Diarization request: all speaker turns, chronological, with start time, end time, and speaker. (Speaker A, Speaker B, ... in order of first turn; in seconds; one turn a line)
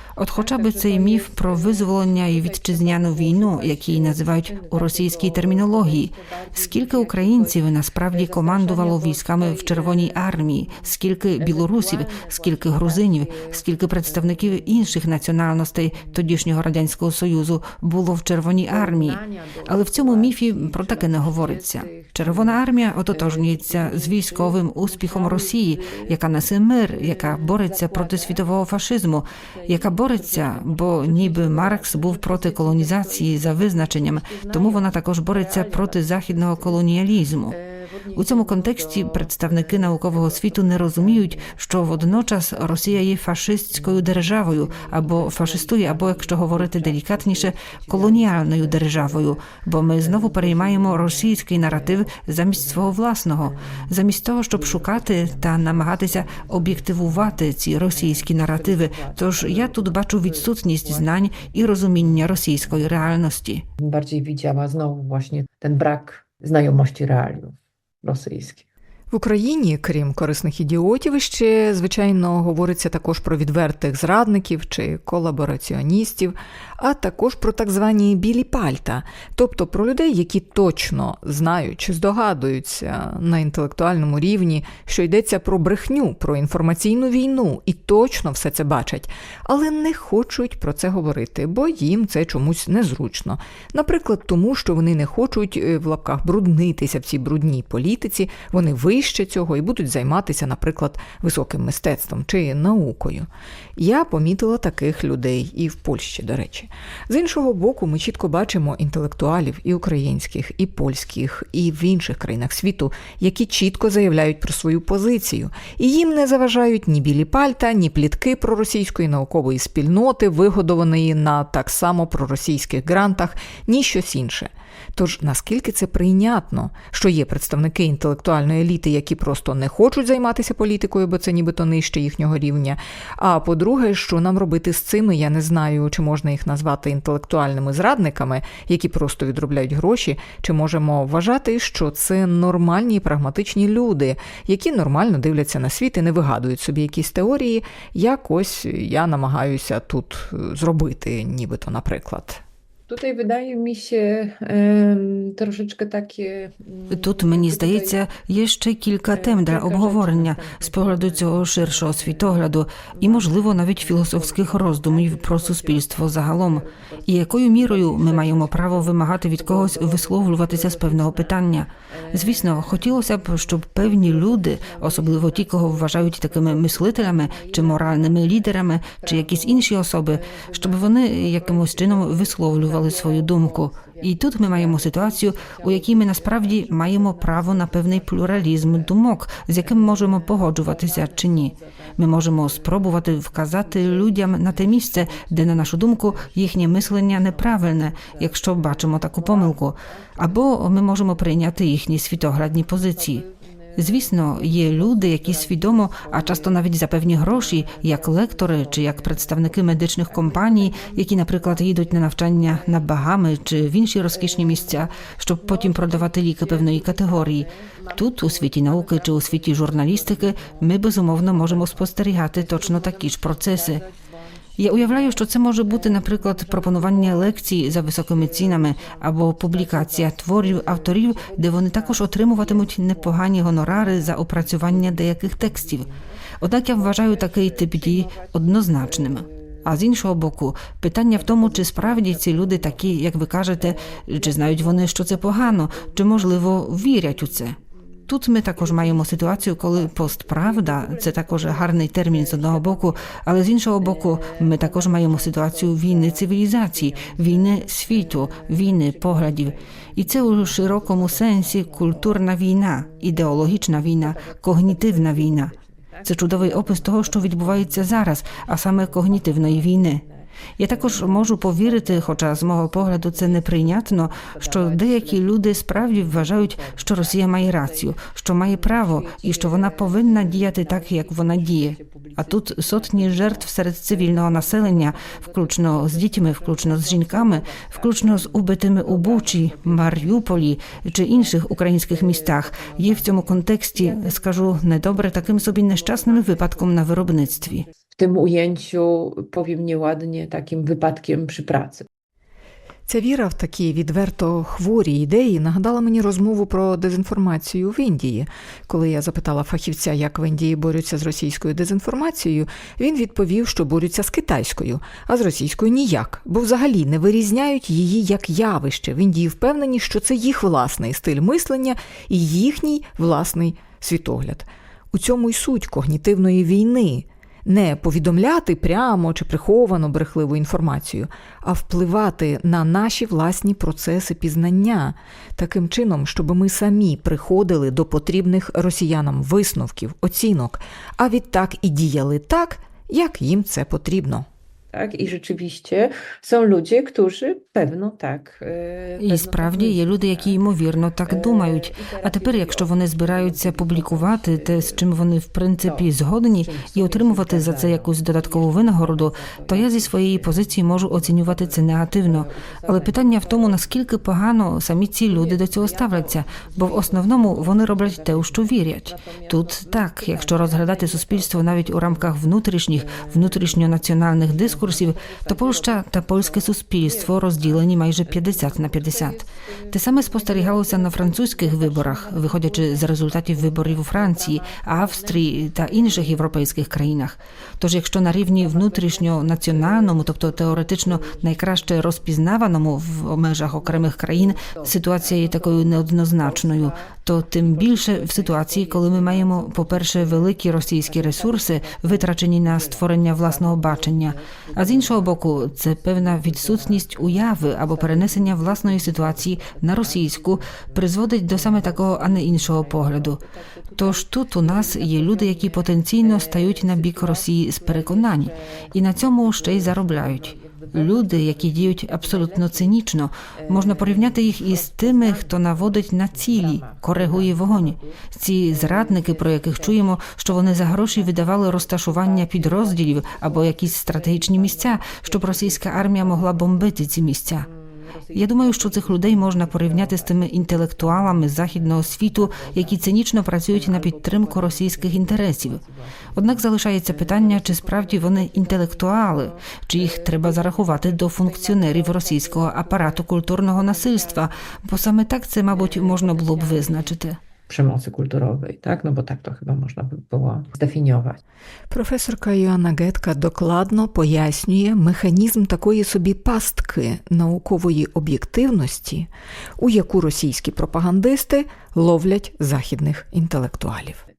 Speaker A: 0.1-37.5
Speaker B: 0.3-15.1
Speaker B: 15.9-16.4
Speaker B: 18.6-26.2
Speaker B: 26.9-28.6
Speaker B: 29.4-36.9
Speaker B: 37.5-43.1
Speaker A: 38.1-63.6
Speaker B: 43.7-53.9
Speaker B: 54.5-57.4
Speaker B: 57.9-63.0
Speaker B: 63.8-68.6
Speaker C: 69.1-152.4
Speaker B: 152.9-158.0
Speaker A: 156.9-203.2
Speaker B: 159.1-201.4
Speaker B: 202.4-213.2
Speaker A: 203.8-223.8
Speaker B: 214.1-239.7
Speaker A: 224.6-235.8
Speaker A: 236.4-247.6
Speaker B: 241.1-247.6
Speaker A: 248.1-265.5
Speaker B: 248.5-253.2
Speaker B: 253.8-262.3
Speaker B: 262.8-301.9
Speaker A: 266.0-270.0
Speaker A: 270.6-297.6
Speaker C: 302.9-344.2
Speaker B: 344.7-350.4
Speaker A: 349.0-413.2
Speaker B: 351.1-354.9
Speaker B: 355.6-364.0
Speaker B: 365.1-372.2
Speaker B: 372.7-386.9
Speaker B: 388.2-392.1
Speaker B: 393.4-400.3
Speaker B: 400.8-436.7
Speaker A: 413.8-437.5
Speaker B: 437.4-454.5
Speaker A: 438.1-445.6
Speaker A: 446.1-457.2
Speaker B: 455.5-456.9
Speaker B: 457.5-461.2
Speaker C: 461.7-474.0